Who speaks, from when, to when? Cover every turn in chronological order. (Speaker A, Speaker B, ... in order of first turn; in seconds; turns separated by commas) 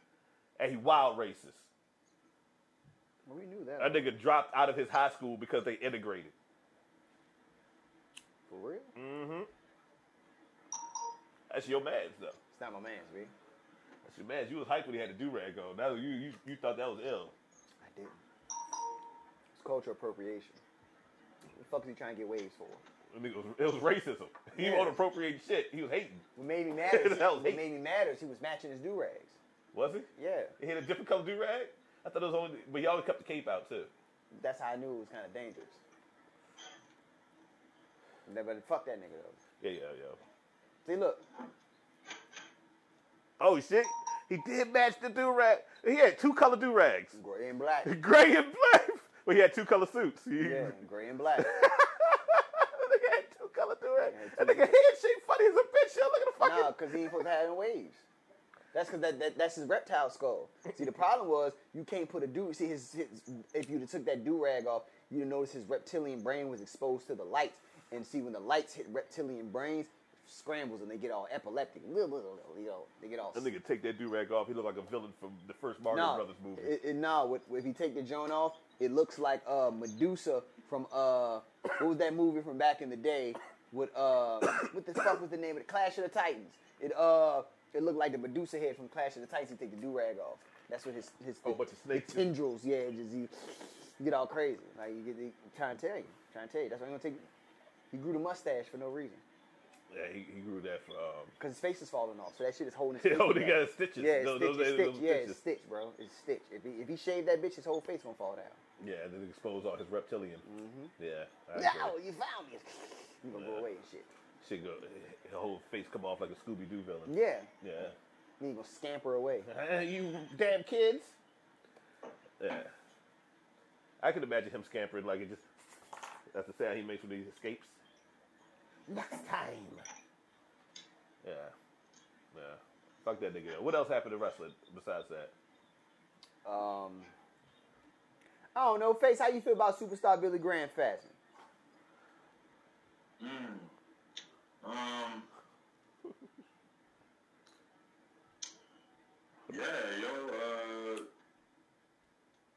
Speaker A: 0.6-1.7, Speaker B: 3.2-4.1, Speaker A: 3.8-6.3, Speaker B: 8.5-8.9, Speaker A: 8.9-9.5, Speaker A: 11.5-12.4, Speaker B: 12.5-13.3, Speaker A: 14.0-17.3, Speaker B: 17.8-18.2, Speaker B: 19.5-20.6, Speaker B: 21.5-22.8, Speaker A: 23.1-26.2, Speaker B: 24.6-25.0, Speaker B: 26.4-29.4, Speaker A: 26.9-27.6, Speaker A: 29.7-33.9, Speaker B: 30.1-30.5, Speaker B: 34.3-35.8, Speaker B: 38.2-39.4, Speaker A: 39.6-40.2, Speaker B: 40.8-41.2, Speaker A: 43.4-47.2, Speaker B: 47.1-47.9, Speaker A: 47.8-50.8, Speaker B: 50.4-51.6, Speaker A: 51.4-57.1, Speaker B: 54.0-54.7, Speaker B: 56.4-58.0, Speaker B: 58.7-73.5, Speaker A: 73.3-76.8, Speaker B: 75.9-97.3, Speaker A: 91.4-92.3, Speaker B: 97.9-99.2, Speaker A: 99.9-101.3, Speaker B: 101.4-108.6, Speaker A: 103.0-105.4, Speaker A: 108.8-110.4, Speaker B: 110.4-110.9, Speaker A: 111.0-111.9, Speaker B: 111.5-114.1, Speaker A: 113.3-113.6, Speaker A: 114.4-117.9, Speaker B: 117.1-117.9, Speaker B: 118.4-119.5, Speaker A: 119.4-121.2, Speaker A: 122.4-122.7, Speaker A: 124.0-125.5, Speaker A: 126.3-127.8, Speaker A: 128.9-129.8, Speaker A: 131.2-131.5, Speaker A: 132.3-135.3, Speaker B: 136.4-137.1, Speaker B: 138.5-141.2, Speaker C: 143.2-143.7, Speaker C: 144.6-145.3, Speaker C: 149.5-151.1